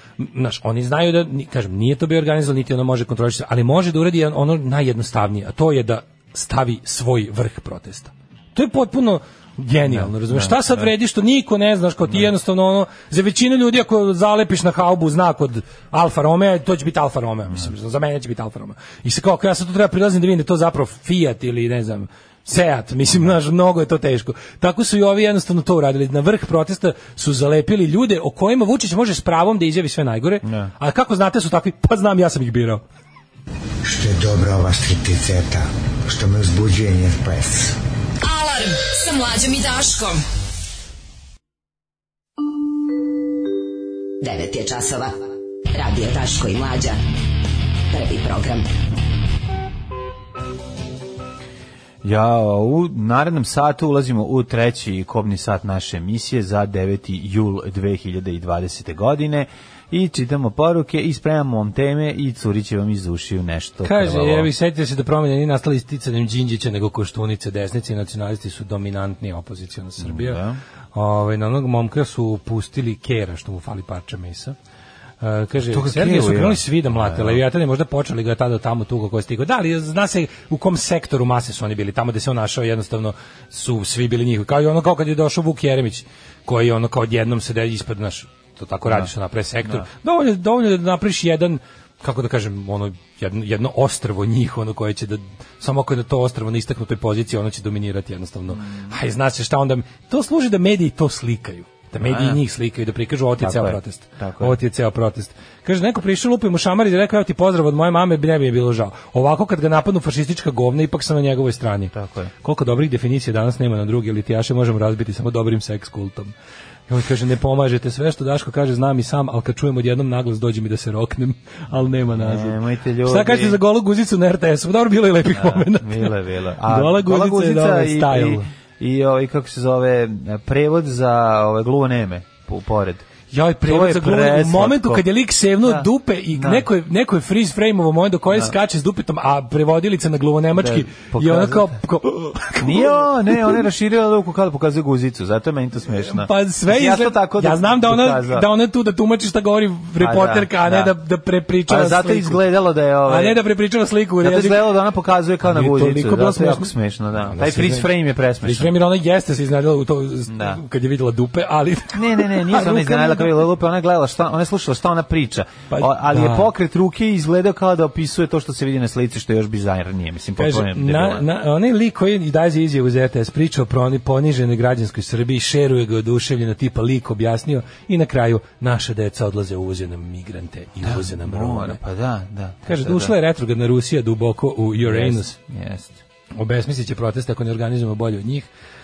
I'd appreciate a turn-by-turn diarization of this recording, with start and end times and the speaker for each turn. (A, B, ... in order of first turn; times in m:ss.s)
0:00.2-0:32.8 A
0:09.9-0:10.9 B
0:30.4-0:30.7 B
0:33.8-0:37.7 C
0:38.2-0:40.2 D
0:44.2-0:45.2 E
0:45.7-0:47.0 E
0:47.9-0:48.7 E
0:52.0-1:04.5 B
1:03.8-1:10.4 A
1:10.0-1:10.6 B
1:10.9-1:14.6 A
1:15.2-1:56.3 A
1:15.7-1:17.4 B
1:38.6-1:38.9 B
1:42.0-1:42.4 B
1:43.4-1:44.6 B
1:51.9-1:52.3 B
1:56.9-2:08.4 A
2:02.1-2:03.6 B
2:05.3-2:13.1 B
2:13.3-2:23.6 A
2:13.6-2:15.1 B
2:15.6-2:16.7 B
2:20.6-2:21.8 B
2:22.6-2:28.5 B
2:26.1-2:32.4 A
2:30.0-2:30.9 B
2:31.7-2:33.4 B
2:33.0-2:34.7 A
2:34.2-2:38.7 B
2:35.4-2:37.9 A
2:38.4-2:43.5 A
2:40.3-2:40.6 B
2:41.9-2:51.3 B
2:45.7-2:46.5 A
2:50.4-3:01.8 A
3:00.8-3:03.2 B
3:02.7-3:05.4 A
3:04.8-3:06.0 B
3:06.4-3:08.5 A